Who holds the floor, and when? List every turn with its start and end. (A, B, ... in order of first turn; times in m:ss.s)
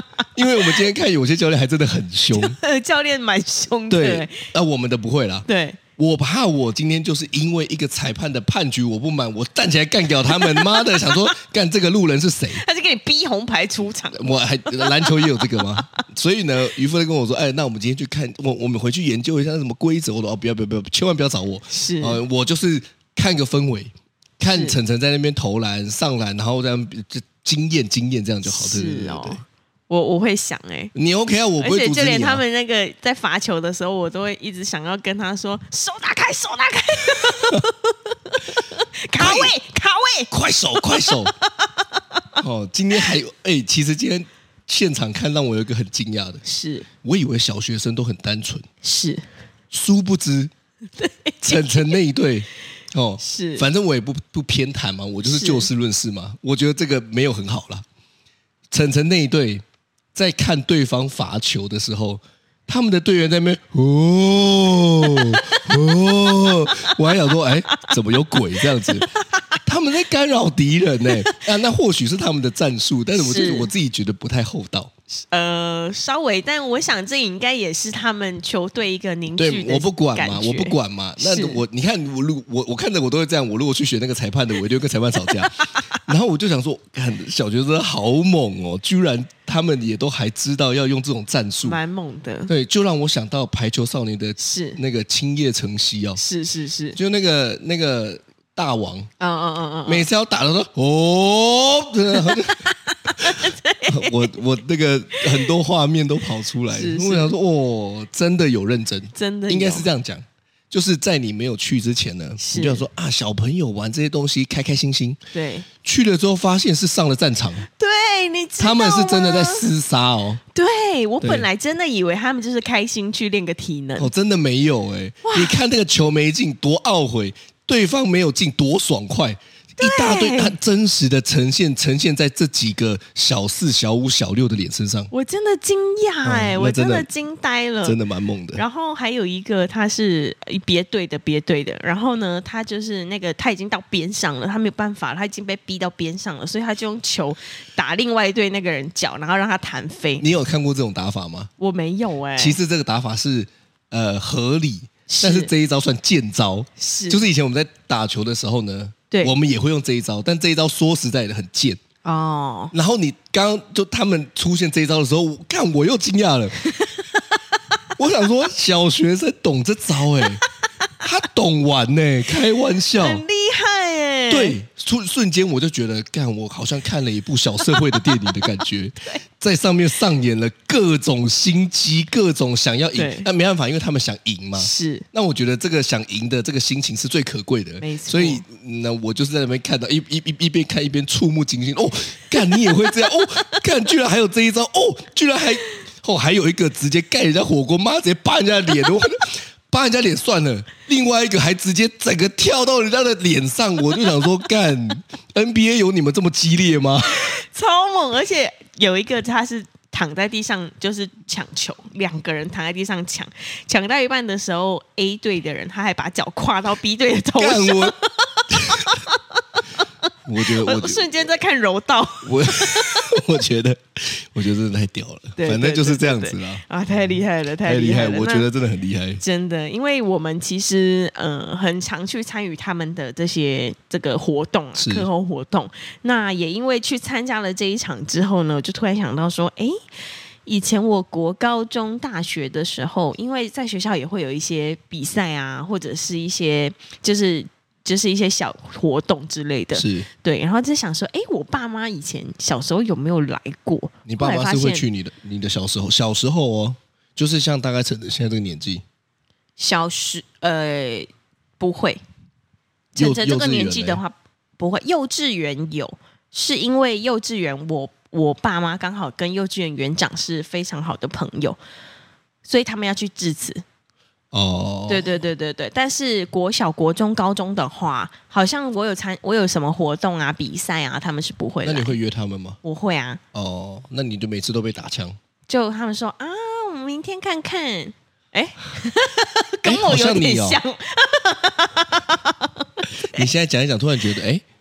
0:00.4-0:02.6 A
0:02.3-0:04.5 B
0:03.9-0:12.6 A
0:05.5-0:05.8 B
0:10.3-0:11.3 B
0:12.5-0:16.0 B
0:14.1-0:29.4 A
0:21.7-0:22.2 B
0:24.5-0:24.8 B
0:28.4-0:30.9 B
0:31.0-0:32.4 A
0:31.6-0:42.4 B
0:37.3-0:37.6 A
0:39.2-0:39.6 A
0:40.3-0:41.3 A
0:42.4-0:46.4 A
0:46.4-0:46.9 B
0:47.0-0:48.7 A
0:48.8-0:49.3 B
0:49.7-0:50.5 A
0:51.0-0:52.0 B
0:51.4-0:57.8 A
0:53.2-0:53.7 B
0:55.2-0:55.7 B
0:58.7-1:09.1 A
1:05.1-1:05.6 B
1:08.6-1:09.6 B
1:09.6-1:14.9 A
1:11.1-1:11.4 B
1:13.2-1:13.7 B
1:15.2-1:21.6 B
1:19.4-1:31.8 A
1:31.6-1:32.5 B
1:32.5-1:36.2 A
1:34.4-1:34.8 B
1:36.2-1:37.0 B
1:37.0-1:39.1 A
1:39.2-1:40.1 B
1:39.9-1:55.2 A
1:42.2-1:44.3 B
1:46.7-1:47.3 B
1:49.2-1:49.9 B
1:52.4-1:52.8 B
1:55.3-1:55.7 B
1:55.8-1:57.7 A
1:57.7-1:59.7 B
1:58.6-2:00.4 A
2:00.5-2:04.1 B
2:01.2-2:01.5 A
2:04.0-2:15.1 A
2:05.2-2:05.6 B
2:09.8-2:10.6 B
2:15.1-2:18.0 B
2:16.2-2:17.1 A
2:17.8-2:18.6 A
2:18.6-2:30.2 B
2:30.2-2:31.5 A
2:31.6-2:32.6 B
2:32.4-2:41.8 A
2:35.1-2:35.5 B
2:36.8-2:37.2 B
2:42.0-2:42.7 B
2:42.7-2:46.7 A
2:46.6-2:47.1 B
2:48.0-2:50.4 A
2:51.0-2:53.2 A
2:53.0-2:54.6 B
2:54.3-3:27.3 A
2:57.7-2:58.2 B
3:03.0-3:03.3 B
3:04.6-3:05.1 B
3:07.8-3:08.4 B
3:12.5-3:12.9 B
3:27.1-3:39.8 B
3:37.4-3:38.0 A
3:38.5-3:39.0 A
3:40.2-3:41.1 A
3:40.4-3:43.2 B
3:42.2-3:46.6 A
3:45.4-3:48.5 B
3:47.6-3:49.2 A
3:49.2-3:59.8 B
3:54.8-3:55.1 A
4:00.5-4:14.9 B
4:09.7-4:10.1 A
4:14.1-4:18.8 A
4:19.6-4:22.0 B
4:23.0-4:31.6 B
4:23.0-4:24.0 A
4:32.4-4:33.6 B
4:34.3-4:35.2 A
4:34.9-4:42.0 B
4:41.6-4:42.6 A
4:42.6-4:43.2 B
4:43.3-4:45.2 A
4:45.5-4:53.2 B
4:49.6-4:50.6 A
4:53.0-4:54.4 A